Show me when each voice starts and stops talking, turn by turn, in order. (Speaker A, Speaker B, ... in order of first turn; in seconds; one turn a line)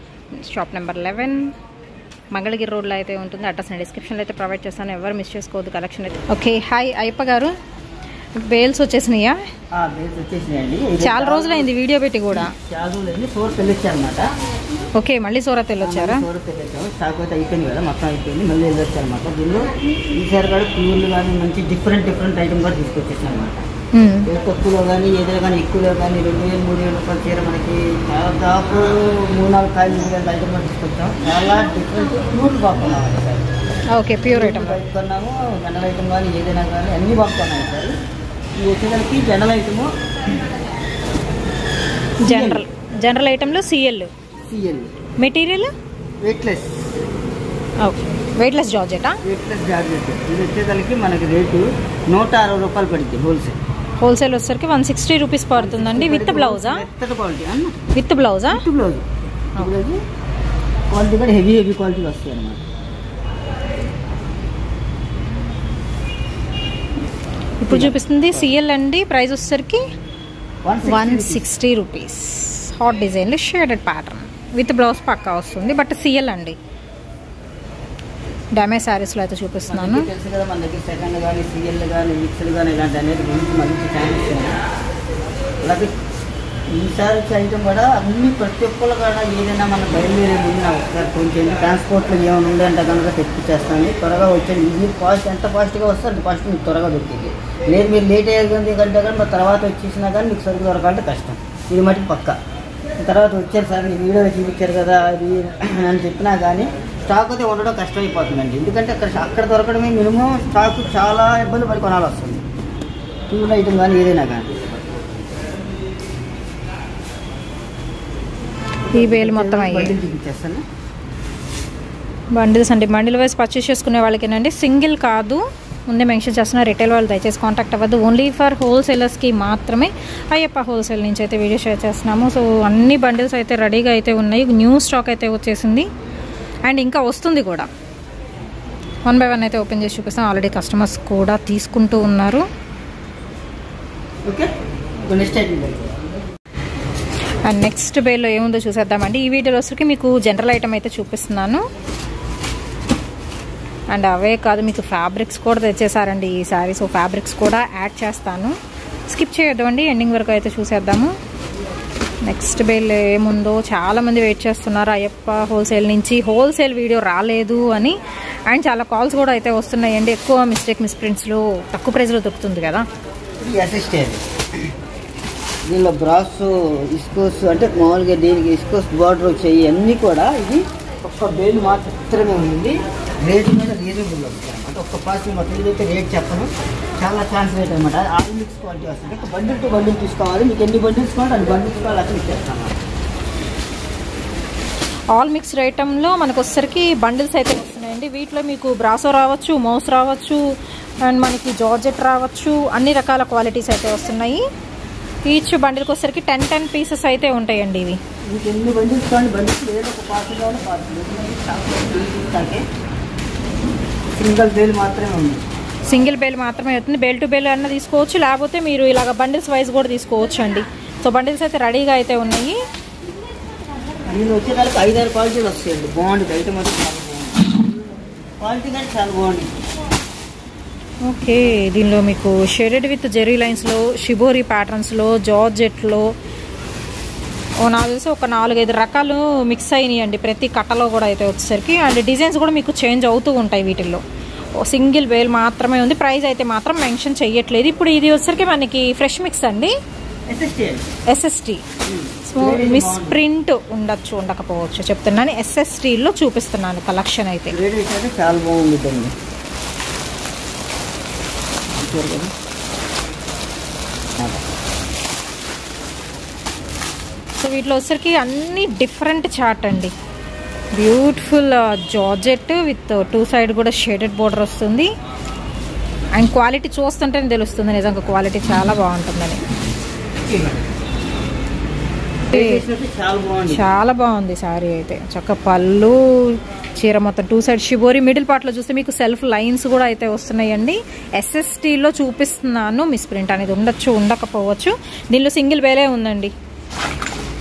Speaker A: 0.3-1.5
Speaker A: 2.3-7.5
Speaker A: 8.4-9.4
Speaker B: 9.7-11.7
Speaker A: 11.0-12.5
Speaker B: 12.3-14.3
Speaker A: 15.0-16.3
Speaker B: 15.8-23.6
Speaker A: 23.9-24.3
Speaker B: 24.3-33.5
Speaker A: 33.9-34.8
Speaker B: 34.2-38.0
Speaker B: 38.6-39.9
Speaker B: 42.2-42.6
Speaker A: 42.3-44.1
Speaker B: 44.5-44.9
Speaker A: 45.2-45.7
Speaker B: 46.2-46.8
Speaker A: 47.8-49.2
Speaker B: 49.2-53.6
Speaker A: 54.0-56.9
Speaker B: 55.5-57.8
Speaker A: 57.9-58.6
Speaker B: 58.5-60.0
Speaker B: 60.9-62.6
Speaker A: 67.6-69.8
Speaker B: 67.7-68.0
Speaker B: 70.7-71.5
Speaker A: 70.8-76.6
Speaker A: 78.6-80.1
Speaker B: 79.7-84.6
Speaker B: 85.6-85.9
Speaker B: 86.7-102.4
Speaker B: 103.0-112.5
Speaker B: 113.3-114.9
Speaker B: 118.9-120.6
Speaker A: 118.9-119.9
Speaker A: 122.3-135.9
Speaker A: 136.7-137.7
Speaker A: 139.1-142.5
Speaker B: 145.1-145.9
Speaker A: 147.4-151.6
Speaker A: 153.9-158.6
Speaker A: 159.1-161.1
Speaker A: 162.3-168.0
Speaker A: 168.5-172.9
Speaker B: 173.4-174.7
Speaker B: 175.7-192.8
Speaker A: 195.1-200.4
Speaker A: 201.1-204.4
Speaker A: 205.3-208.0
Speaker B: 208.3-212.6
Speaker B: 214.2-215.4
Speaker A: 215.9-222.6
Speaker B: 224.1-227.5
Speaker B: 228.4-229.6
Speaker A: 231.1-236.1
Speaker A: 237.6-244.0
Speaker A: 244.6-249.7
Speaker B: 250.3-250.9
Speaker A: 251.1-251.6
Speaker B: 251.9-253.2
Speaker A: 252.3-257.6
Speaker B: 257.5-259.1
Speaker B: 261.7-262.3
Speaker A: 267.4-269.9
Speaker A: 270.8-274.9
Speaker A: 276.2-279.4
Speaker B: 280.3-280.6
Speaker A: 282.3-282.6
Speaker B: 282.3-283.6
Speaker A: 283.5-296.3